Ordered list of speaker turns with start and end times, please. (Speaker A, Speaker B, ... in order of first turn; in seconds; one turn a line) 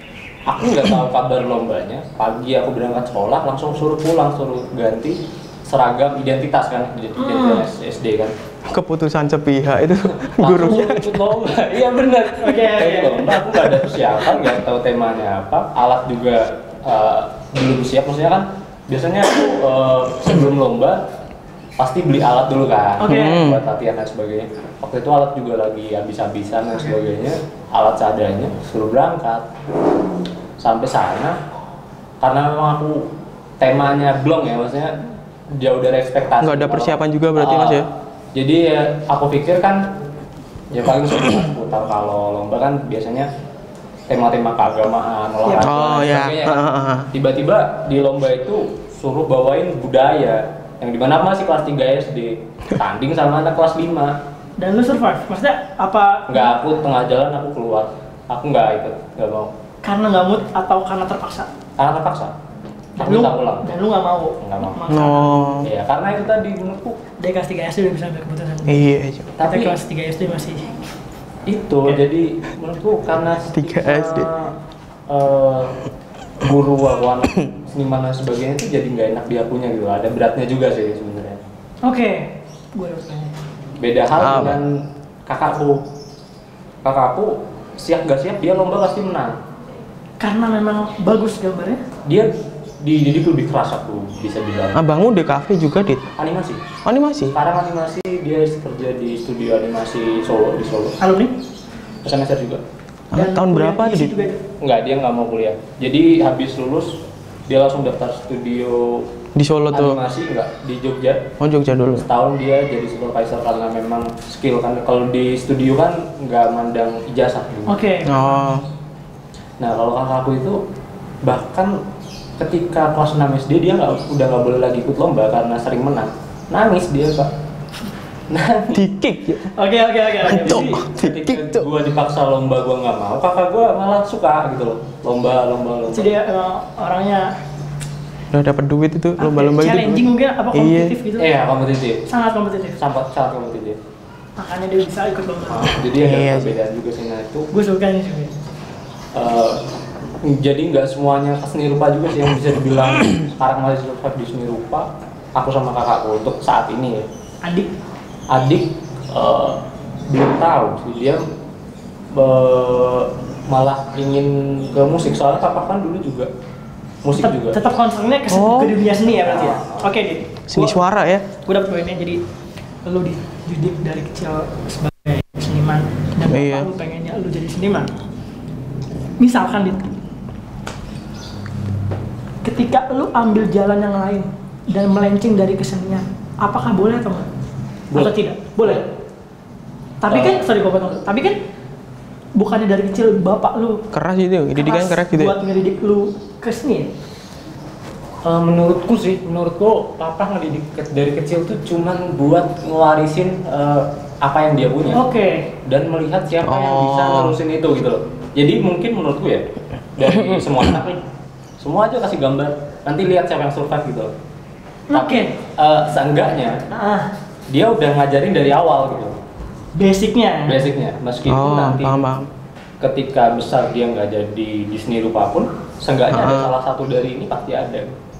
Speaker A: 0.5-8.3
Speaker B: 7.2-7.7
Speaker C: 8.7-11.3
Speaker A: 10.2-21.0
Speaker B: 12.4-13.4
Speaker A: 21.8-29.4
Speaker B: 23.0-23.4
Speaker C: 23.1-23.6
Speaker A: 30.6-31.4
Speaker A: 32.2-35.0
Speaker A: 35.5-39.9
Speaker C: 36.4-37.9
Speaker A: 40.7-43.3
Speaker A: 44.1-54.2
Speaker B: 45.4-45.7
Speaker C: 45.6-47.1
Speaker B: 54.6-56.5
Speaker A: 56.3-59.5
Speaker B: 59.8-61.5
Speaker A: 61.8-62.3
Speaker B: 63.0-65.5
Speaker A: 63.0-63.7
Speaker A: 64.4-64.8
Speaker C: 64.9-65.7
Speaker A: 65.6-67.0
Speaker B: 67.2-68.8
Speaker C: 68.7-69.3
Speaker A: 69.4-69.8
Speaker B: 69.4-70.7
Speaker A: 71.5-74.5
Speaker C: 73.5-74.3
Speaker A: 75.1-75.8
Speaker A: 76.4-81.4
Speaker B: 81.8-83.3
Speaker A: 83.8-85.9
Speaker C: 84.1-84.6
Speaker A: 86.8-89.4
Speaker B: 90.2-91.8
Speaker A: 92.0-92.3
Speaker A: 92.8-94.8
Speaker C: 94.7-96.0
Speaker A: 96.2-96.6
Speaker C: 96.8-97.4
Speaker A: 97.3-101.0
Speaker B: 101.0-101.3
Speaker A: 102.0-102.6
Speaker C: 103.1-104.1
Speaker B: 103.1-104.4
Speaker A: 104.6-109.1
Speaker C: 109.3-110.0
Speaker A: 109.7-111.3
Speaker C: 111.4-112.1
Speaker A: 112.0-117.8
Speaker B: 117.7-118.6
Speaker C: 118.0-118.6
Speaker A: 119.6-120.6
Speaker A: 121.2-121.8
Speaker A: 122.4-127.3
Speaker A: 128.3-128.8
Speaker C: 128.7-129.4
Speaker B: 129.5-130.8
Speaker C: 130.2-131.7
Speaker A: 130.2-136.1
Speaker B: 135.9-137.3
Speaker C: 138.3-140.9
Speaker B: 139.2-141.3
Speaker A: 141.2-142.0
Speaker B: 142.1-142.8
Speaker A: 142.8-143.8
Speaker B: 144.4-145.8
Speaker A: 145.5-147.5
Speaker C: 145.9-146.5
Speaker B: 147.5-148.3
Speaker A: 149.1-149.6
Speaker A: 150.2-157.1
Speaker B: 157.4-157.7
Speaker A: 158.3-161.2
Speaker A: 162.1-166.3
Speaker A: 167.0-167.6
Speaker B: 167.1-170.8
Speaker C: 168.3-168.8
Speaker A: 169.1-169.9
Speaker C: 170.5-171.3
Speaker B: 171.4-172.2
Speaker B: 172.8-177.9
Speaker C: 176.2-176.7
Speaker B: 179.2-179.9
Speaker B: 182.4-187.3
Speaker A: 187.9-188.8
Speaker B: 187.9-188.8
Speaker B: 190.0-191.4
Speaker A: 190.1-190.4
Speaker B: 192.3-193.8
Speaker C: 193.9-195.3
Speaker B: 194.6-196.9
Speaker A: 198.2-205.0
Speaker B: 204.9-205.5
Speaker A: 205.6-211.0
Speaker C: 206.4-207.4
Speaker A: 211.6-214.1
Speaker B: 214.9-215.3
Speaker A: 214.9-216.6
Speaker B: 216.7-217.1
Speaker A: 217.5-219.2
Speaker B: 219.7-220.7
Speaker A: 220.5-222.0
Speaker C: 221.2-222.3
Speaker A: 222.8-227.9
Speaker C: 226.1-226.5